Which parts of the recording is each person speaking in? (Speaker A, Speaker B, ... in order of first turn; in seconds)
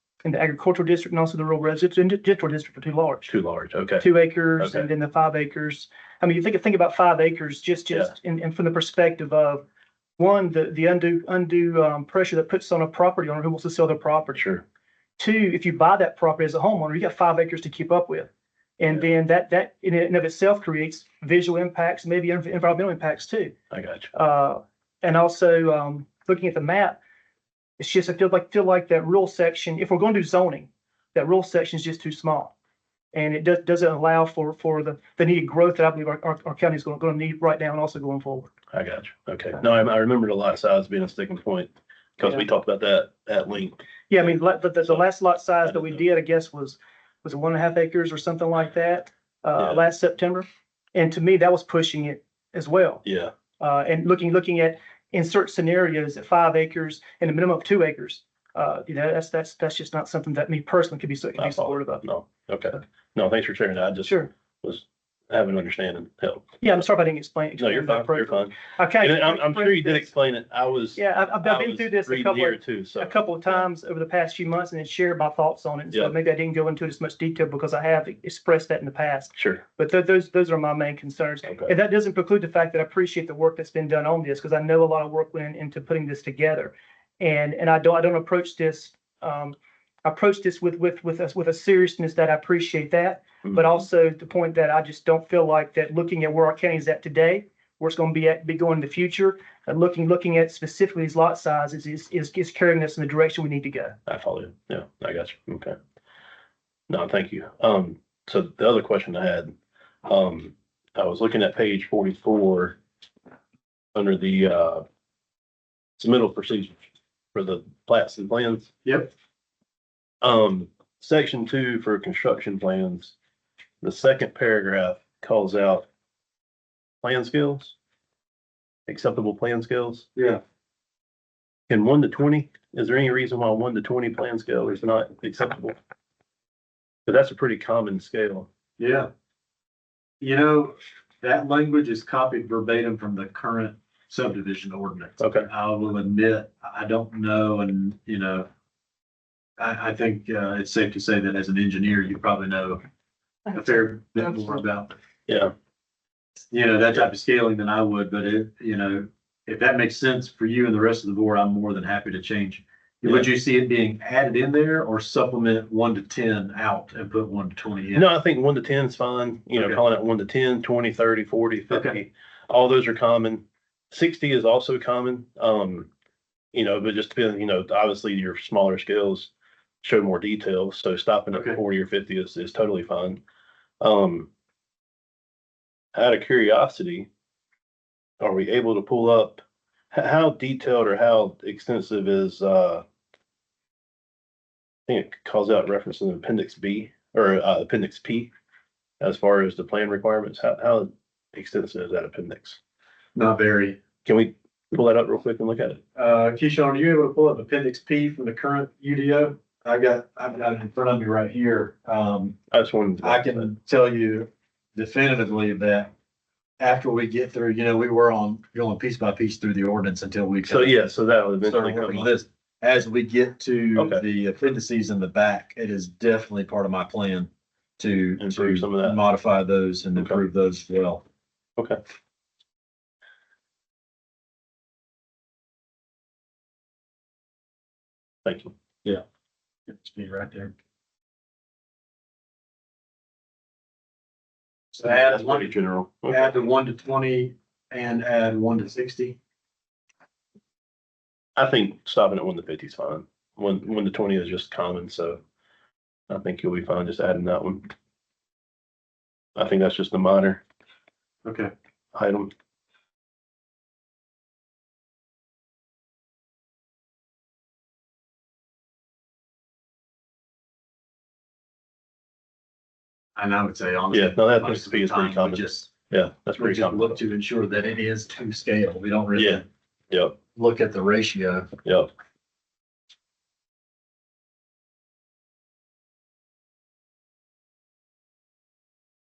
Speaker A: 0.2-3.3, 4.0-9.6, 10.2-14.4, 15.2-23.5, 24.1-27.0, 27.8-32.5, 33.1-38.5, 44.1-53.0, 53.6-62.0, 64.0-64.3, 66.6-70.1, 70.9-104.0
Speaker B: 3.3-4.1, 4.6-4.9, 14.4-14.6, 23.7-24.1, 38.7-44.3, 45.6-46.0, 53.0-53.3, 61.4-66.8, 67.6-73.5, 79.4-79.6, 81.5-81.7, 104.1-105.8, 106.9-109.5, 110.0-112.8, 113.9-114.8, 116.0-118.7, 120.2-123.1, 123.8-125.8, 127.0-127.8, 128.9-130.1, 131.7-135.8, 137.1-138.5, 145.2-145.5, 155.3-155.5, 167.9-175.9, 176.5-179.3, 179.8-183.2, 183.8-184.3, 185.9-187.1, 188.2-192.8, 194.9-198.3, 199.0-202.6, 204.1-205.8, 212.5-213.5, 220.4-222.1, 223.8-224.0, 228.2-229.0, 238.2-238.5, 244.8-246.3, 251.3-255.2, 256.1-257.7, 259.4-260.4, 261.9-262.3, 273.9-277.0, 279.1-280.2
Speaker C: 118.8-119.1, 130.2-130.4, 138.8-139.1, 140.2-148.5, 149.6-152.8, 153.5-154.9, 156.5-168.1, 169.5-169.8, 171.7-172.0, 181.3-181.6, 203.2-203.8, 206.0-212.4, 213.0-215.9, 216.6-220.8, 221.4-231.0, 239.7-240.5, 244.7-245.5, 246.1-249.2, 261.2-261.5, 273.1-275.7, 276.4-279.4, 280.3-281.5